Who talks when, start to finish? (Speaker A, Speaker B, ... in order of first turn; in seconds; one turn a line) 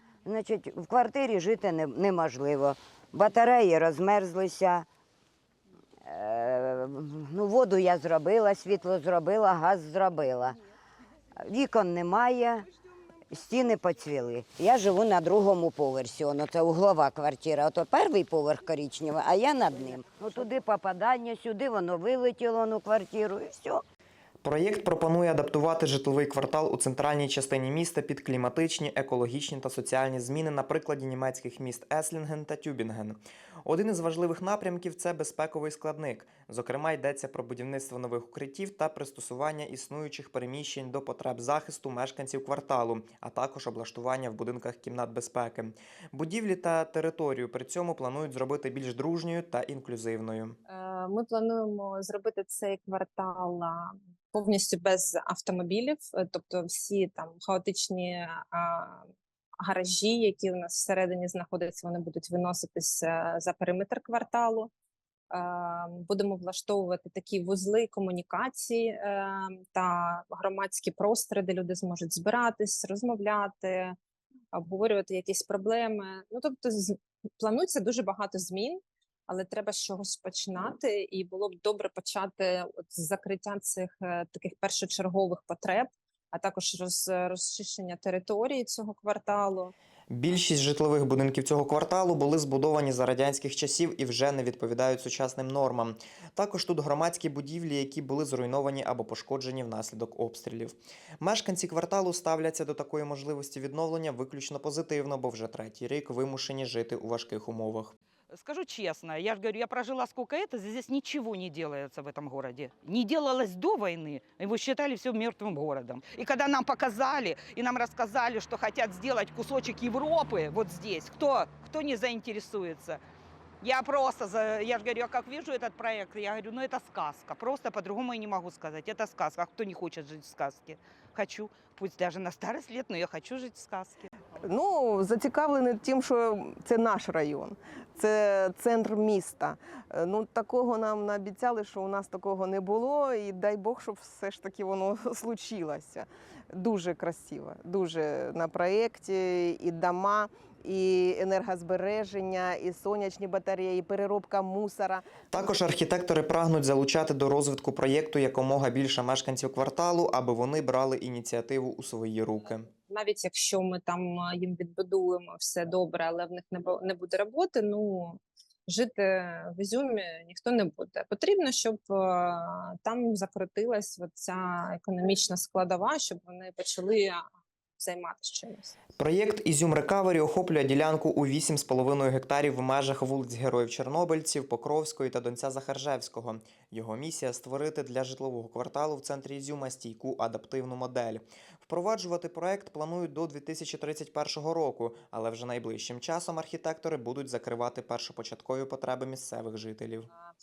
Speaker A: 0.2-4.8
Speaker A: 6.0-10.6
Speaker A: 11.4-12.7
Speaker A: 13.3-23.8
Speaker B: 24.4-50.6
Speaker C: 50.7-59.0
Speaker C: 59.6-64.7
Speaker C: 65.3-73.9
Speaker C: 74.5-89.7
Speaker B: 90.1-107.9
Speaker D: 108.3-123.0
Speaker D: 123.6-134.1
Speaker E: 134.4-155.0
Speaker B: 155.3-162.7
Speaker C: 162.9-177.2
Speaker C: 177.8-178.7
Speaker B: 179.0-200.1